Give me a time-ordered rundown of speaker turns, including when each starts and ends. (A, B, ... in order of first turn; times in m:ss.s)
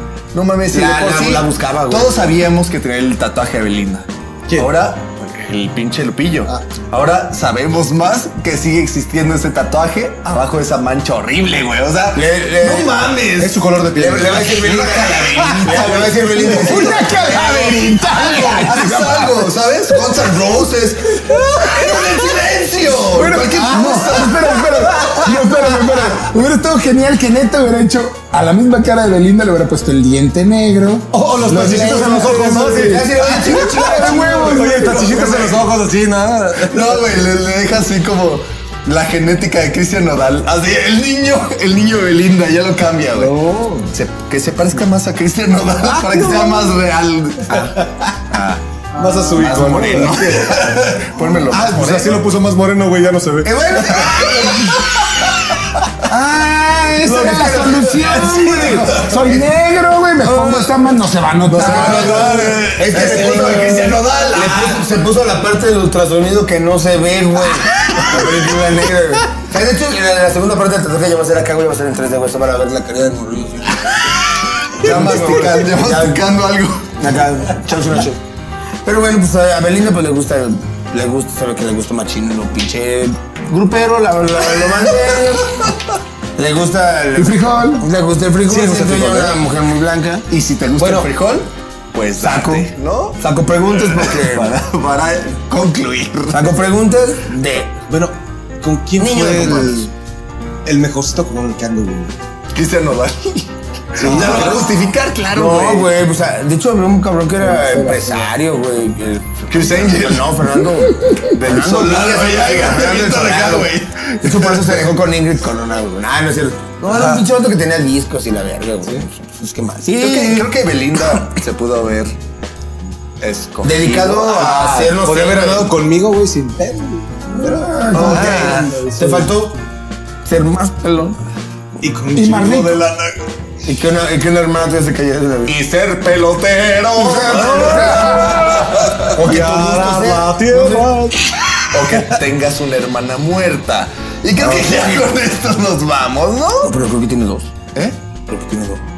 0:00.3-0:13.6 A
0:00.7-0:02.2 B
0:04.5-0:04.8 C
0:12.1-0:13.1 B
0:13.4-0:15.2 C
0:14.0-0:17.6 B
0:14.6-0:25.2 A
0:16.5-0:19.3 D
0:23.1-0:35.5 D
0:23.5-0:24.0 C
0:24.9-0:25.3 C
0:31.1-0:37.2 C
0:32.8-0:35.6 B
0:34.0-0:35.4 A
0:36.6-0:43.3 A
0:43.1-0:43.9 C
0:43.9-0:48.6 A
0:46.0-0:46.7 C
0:49.0-0:50.5 C
0:49.0-0:49.5 D
0:49.4-0:52.2 A
0:49.6-0:50.6 B
0:51.5-0:54.3 C
0:53.4-0:55.2 A
0:56.1-1:02.5 D
0:57.0-0:59.3 A
1:00.2-1:00.7 A
1:01.5-1:04.9 A
1:01.6-1:14.0 B
1:01.6-1:03.8 C
1:07.8-1:08.4 A
1:14.8-1:16.4 B
1:14.8-1:17.0 A
1:17.0-1:18.2 B
1:18.8-1:25.6 B
1:24.4-1:25.2 A
1:26.4-1:30.2 B
1:27.1-1:27.9 D
1:28.5-1:29.4 C
1:28.6-1:29.2 A
1:30.3-1:33.2 A
1:30.8-1:31.1 C
1:32.2-1:34.6 B
1:33.7-1:36.5 A
1:36.3-1:37.7 B
1:37.9-1:39.9 C
1:39.0-1:39.9 B
1:40.6-1:42.1 C
1:42.5-1:46.0 A
1:44.0-1:44.7 C
1:44.0-1:44.5 B
1:45.3-2:00.5 B
1:47.4-1:48.3 D
1:49.5-1:50.3 A
1:51.3-1:54.9 A
1:56.8-1:57.2 C
1:59.9-2:02.2 A
2:03.2-2:04.8 A
2:03.6-2:05.7 B
2:04.2-2:09.3 C
2:07.4-2:08.8 D
2:07.9-2:09.6 B
2:08.0-2:08.8 A
2:10.2-2:11.2 B
2:11.8-2:13.1 C
2:12.1-2:12.8 D
2:13.6-2:15.6 B
2:15.5-2:19.0 A
2:17.0-2:18.7 D
2:17.3-2:18.4 C
2:17.7-2:18.0 B
2:19.0-2:20.9 B
2:19.2-2:21.2 C
2:21.7-2:26.8 A
2:24.4-2:25.0 B
2:26.6-2:27.5 B
2:28.3-2:28.8 B